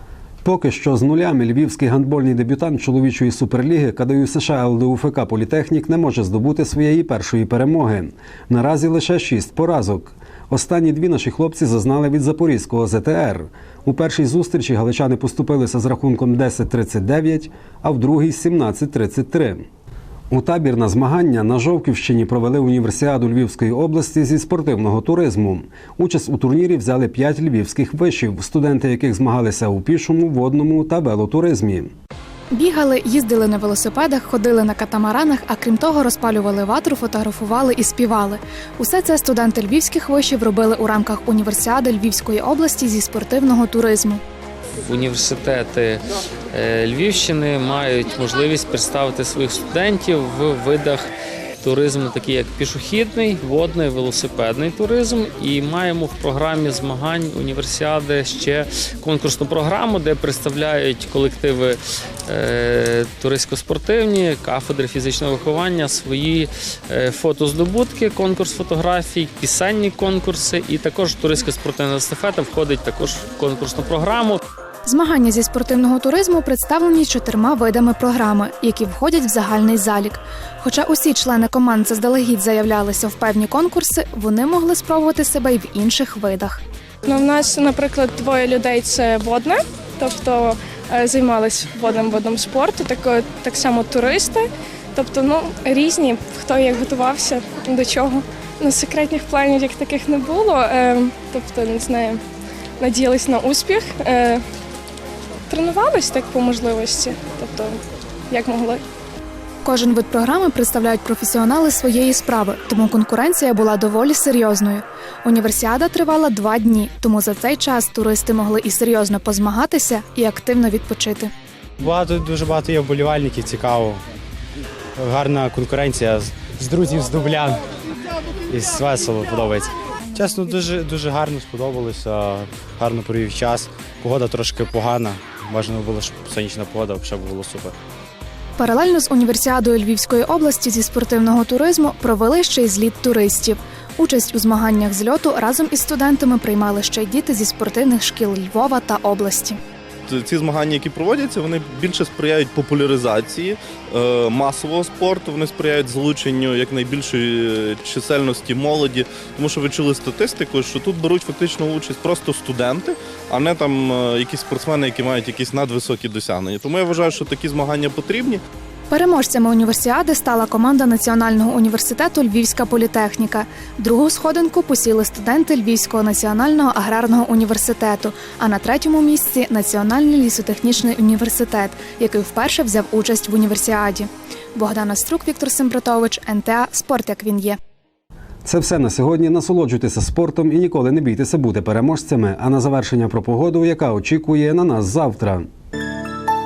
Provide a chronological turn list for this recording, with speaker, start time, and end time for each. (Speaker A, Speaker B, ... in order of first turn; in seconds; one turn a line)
Speaker A: 0.4-19.6
Speaker A: 20.3-31.9
Speaker B: 32.5-44.2
Speaker C: 44.8-51.1
Speaker C: 51.6-74.4
Speaker B: 74.9-86.6
Speaker D: 87.1-102.2
Speaker D: 102.8-104.4
Speaker D: 105.5-108.8
Speaker B: 109.6-121.3
Speaker E: 121.8-124.0
Speaker E: 125.0-127.6
Speaker E: 128.5-137.7
Speaker B: 138.6-149.6
Speaker F: 150.1-168.4
Speaker B: 168.9-187.6
Speaker A: 188.4-195.5